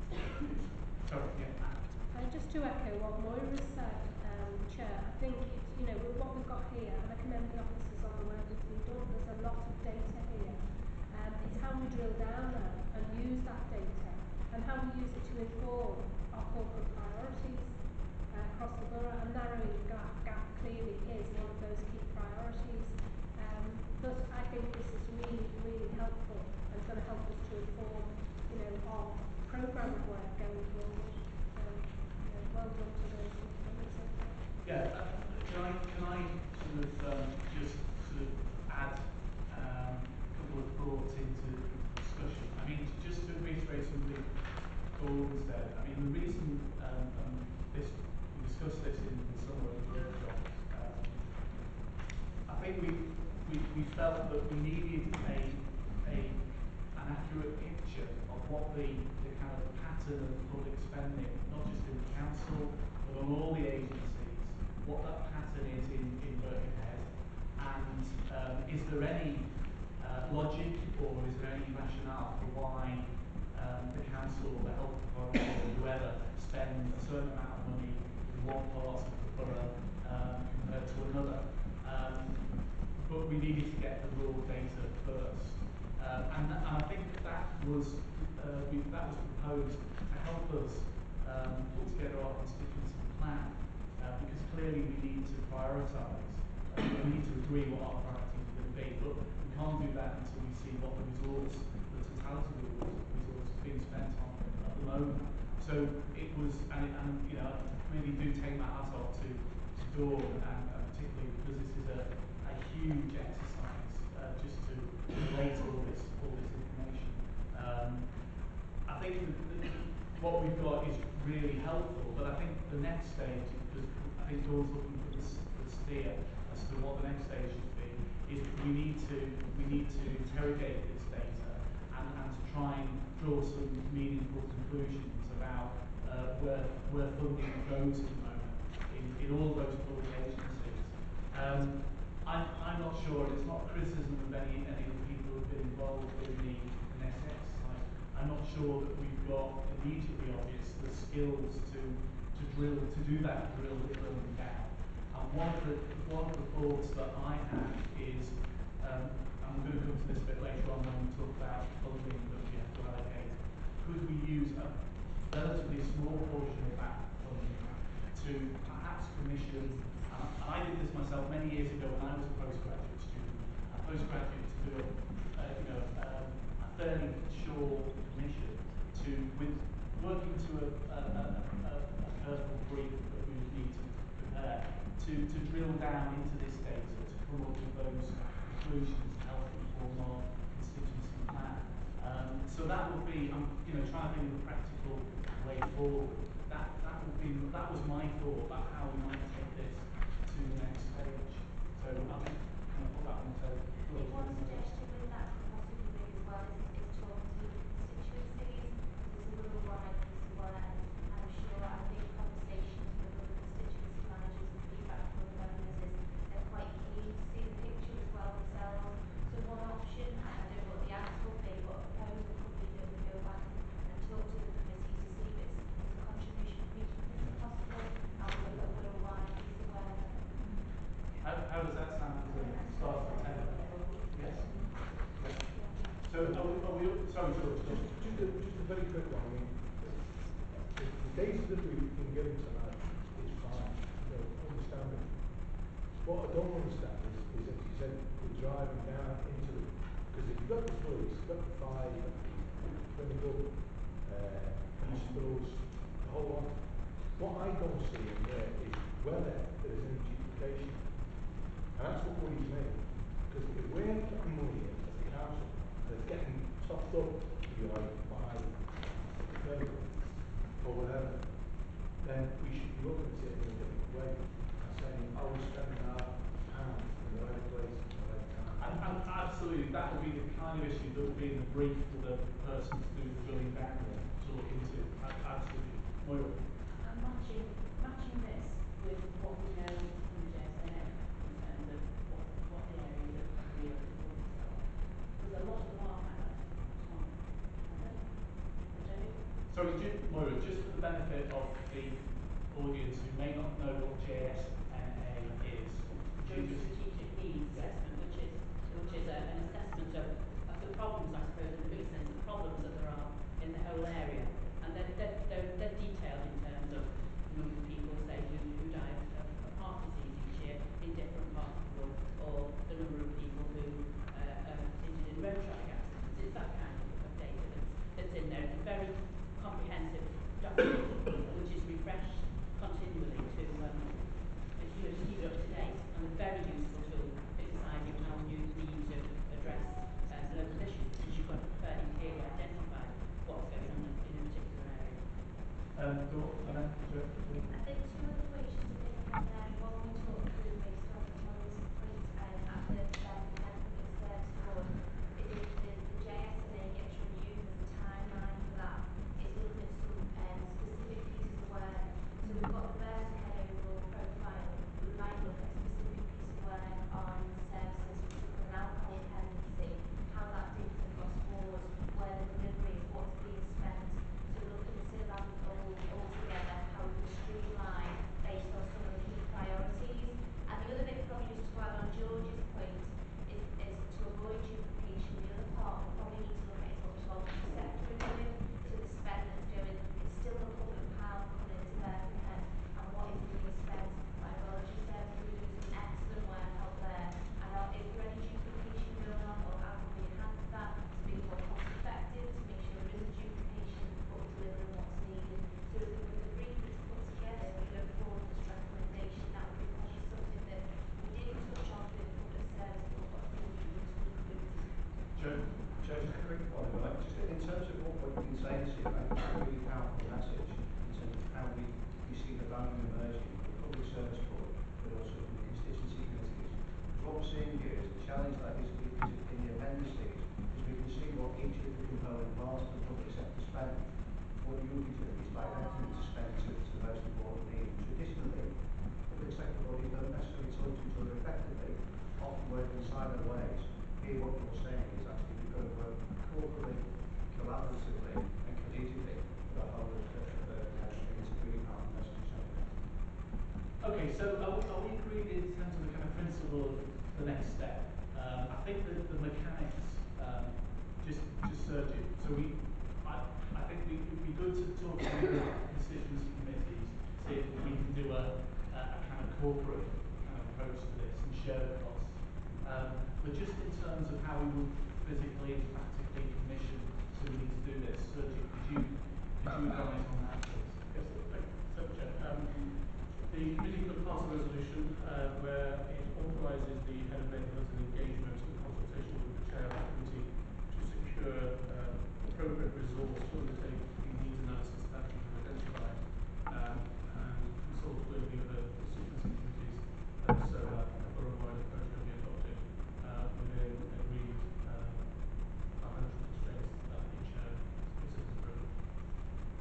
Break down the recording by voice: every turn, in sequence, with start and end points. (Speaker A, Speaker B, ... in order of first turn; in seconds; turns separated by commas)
Speaker A: 1.0-2.1, Speaker B: 2.1-34.5, Speaker A: 34.6-51.9, Speaker A: 52.4-204.7, Speaker C: 203.9-230.6, Speaker A: 231.2-238.4, Speaker C: 232.3-234.7, Speaker B: 235.5-235.9, Speaker D: 236.1-236.6, Speaker D: 237.3-279.1, Speaker A: 254.8-255.3, Speaker A: 278.6-286.5, Speaker D: 283.8-284.1, Speaker E: 286.7-299.4, Speaker A: 299.5-306.9, Speaker E: 306.1-345.3, Speaker A: 307.5-307.8, Speaker A: 345.7-347.6, Speaker C: 347.5-415.1, Speaker A: 415.1-415.5, Speaker F: 415.5-452.9, Speaker A: 453.8-480.9, Speaker G: 480.9-509.2